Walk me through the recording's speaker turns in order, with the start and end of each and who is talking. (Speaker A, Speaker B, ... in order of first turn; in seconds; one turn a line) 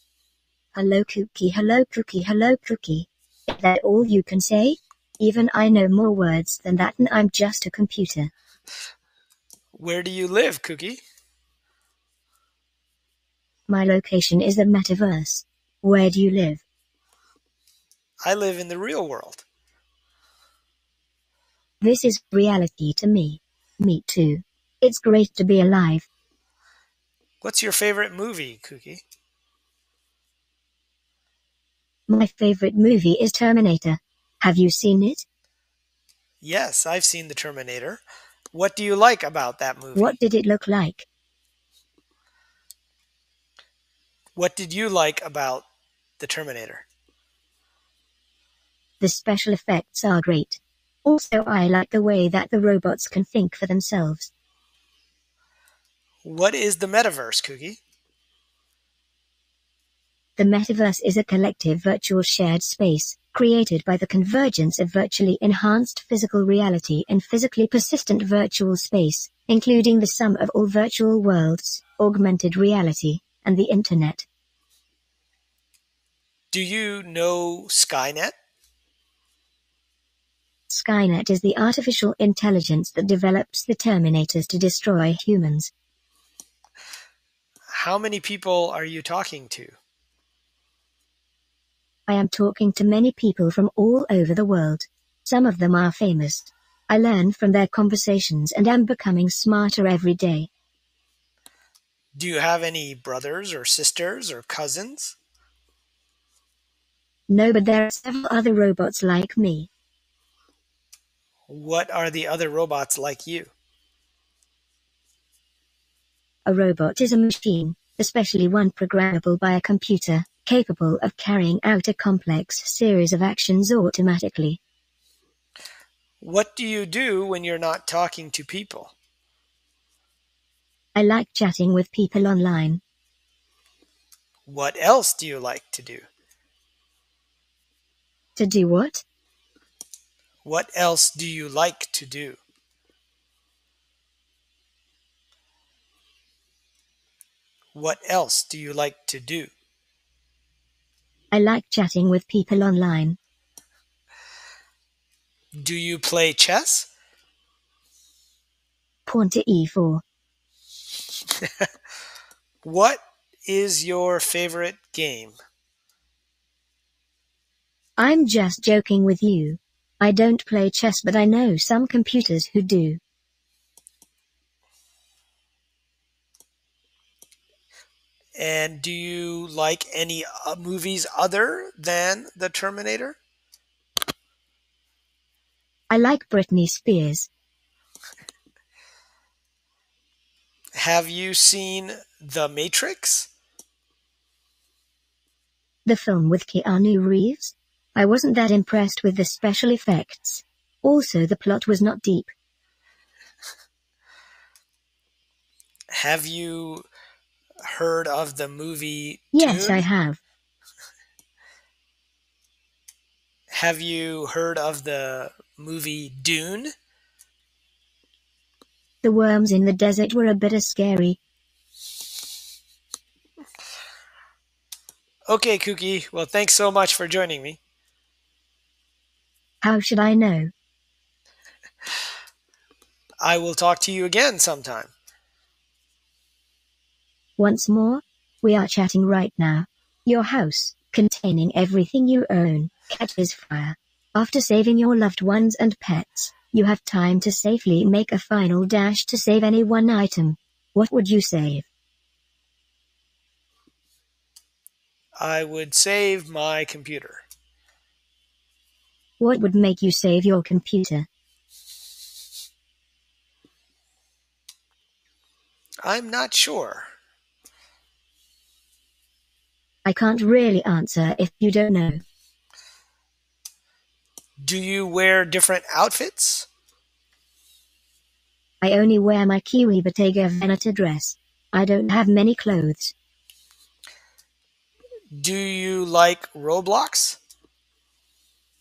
Speaker A: 0.7-8.3
Speaker B: 9.7-11.0
Speaker A: 13.7-16.6
Speaker B: 18.2-19.4
Speaker A: 21.8-26.1
Speaker B: 27.4-29.0
Speaker A: 32.1-35.2
Speaker B: 36.4-40.2
Speaker A: 39.9-41.1
Speaker B: 44.4-45.6
Speaker B: 46.2-46.9
Speaker A: 49.0-54.3
Speaker B: 56.2-57.8
Speaker A: 60.4-74.3
Speaker B: 76.5-78.3
Speaker A: 80.7-85.7
Speaker B: 87.7-89.8
Speaker A: 92.1-100.5
Speaker B: 102.1-105.2
Speaker A: 107.3-109.7
Speaker B: 111.5-113.5
Speaker A: 116.5-124.6
Speaker B: 126.2-128.9
Speaker A: 130.9-132.8
Speaker B: 134.4-136.1
Speaker A: 138.3-139.0
Speaker B: 140.4-142.4
Speaker B: 147.7-149.5
Speaker A: 151.3-153.2
Speaker B: 155.5-156.9
Speaker A: 159.1-160.0
Speaker B: 162.6-165.4
Speaker A: 168.0-173.0
Speaker B: 178.3-183.2
Speaker A: 185.9-187.3
Speaker B: 190.8-193.3
Speaker A: 195.8-202.3
Speaker B: 205.9-206.9
Speaker B: 207.6-209.9
Speaker A: 209.3-210.2
Speaker B: 213.5-216.7
Speaker A: 219.0-221.2
Speaker B: 225.3-227.6
Speaker A: 229.6-230.5
Speaker B: 233.2-234.9
Speaker A: 237.4-251.7
Speaker B: 255.2-257.2
Speaker A: 259.2-261.1
Speaker B: 265.8-266.9
Speaker A: 269.8-272.0
Speaker B: 274.4-276.5
Speaker A: 278.6-282.9
Speaker B: 285.1-287.2